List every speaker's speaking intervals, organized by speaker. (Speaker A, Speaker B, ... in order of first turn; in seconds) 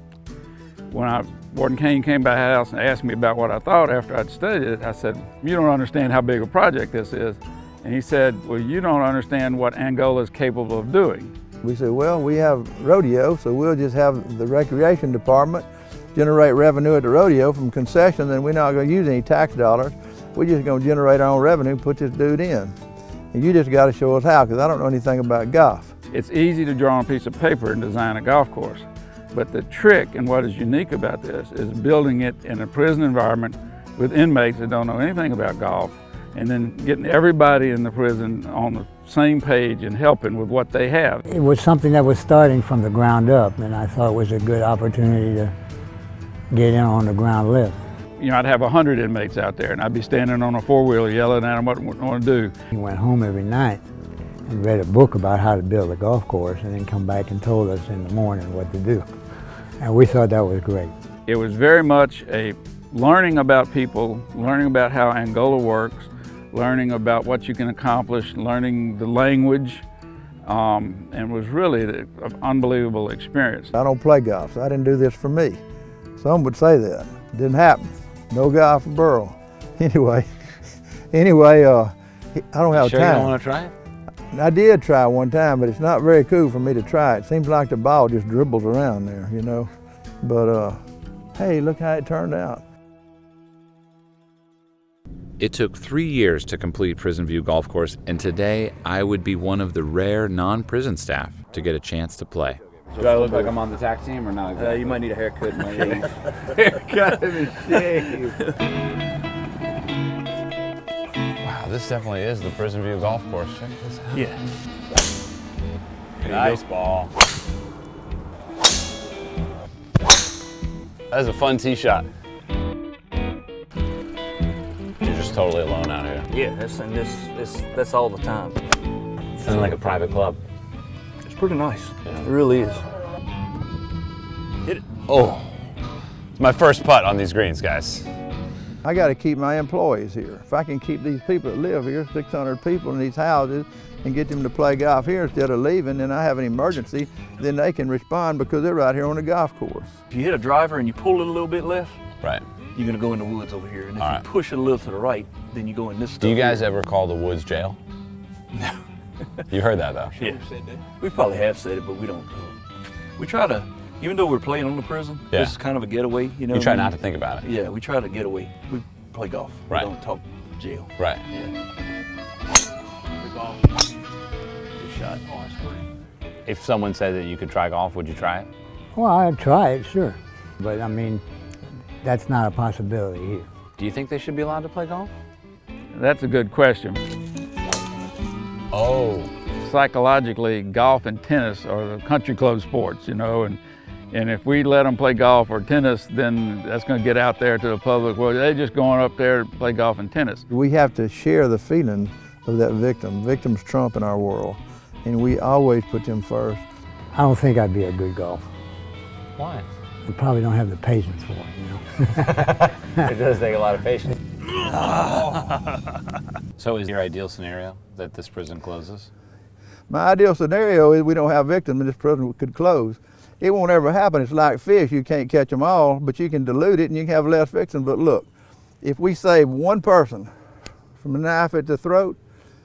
Speaker A: 0.9-11.3, 26.1-41.2, 48.2-52.5, 61.2-69.8, 70.5-73.7, 185.9-187.0, 189.6-193.6, 194.1-200.4
Speaker B: 11.6-22.7, 23.3-25.9, 73.7-75.6, 76.2-80.3, 81.1-83.4, 84.3-89.7, 90.2-90.8, 91.3-92.6, 106.6-108.3, 138.8-149.9, 200.5-206.6, 219.9-228.3, 228.8-230.3, 231.0-232.2
Speaker C: 41.3-45.5, 46.5-47.8, 52.7-53.8, 54.5-59.0, 59.8-60.9, 178.9-181.2, 182.0-183.5, 207.1-208.4, 210.1-212.4
Speaker D: 82.7-83.7, 95.4-106.1, 111.4-114.2, 116.2-117.1, 121.1-122.1, 125.0-126.2, 129.4-130.4, 135.1-135.6, 136.3-138.1, 154.0-154.2, 156.2-157.8, 159.5-160.3, 165.3-165.6, 166.5-167.4, 176.4-178.5, 183.8-185.1, 188.7-189.3, 209.4-209.7, 212.3-215.7, 216.6-219.1
Speaker E: 126.3-128.5, 131.3-132.8, 150.1-151.9, 152.7-156.4, 161.0-162.5, 163.2-166.8, 167.5-170.8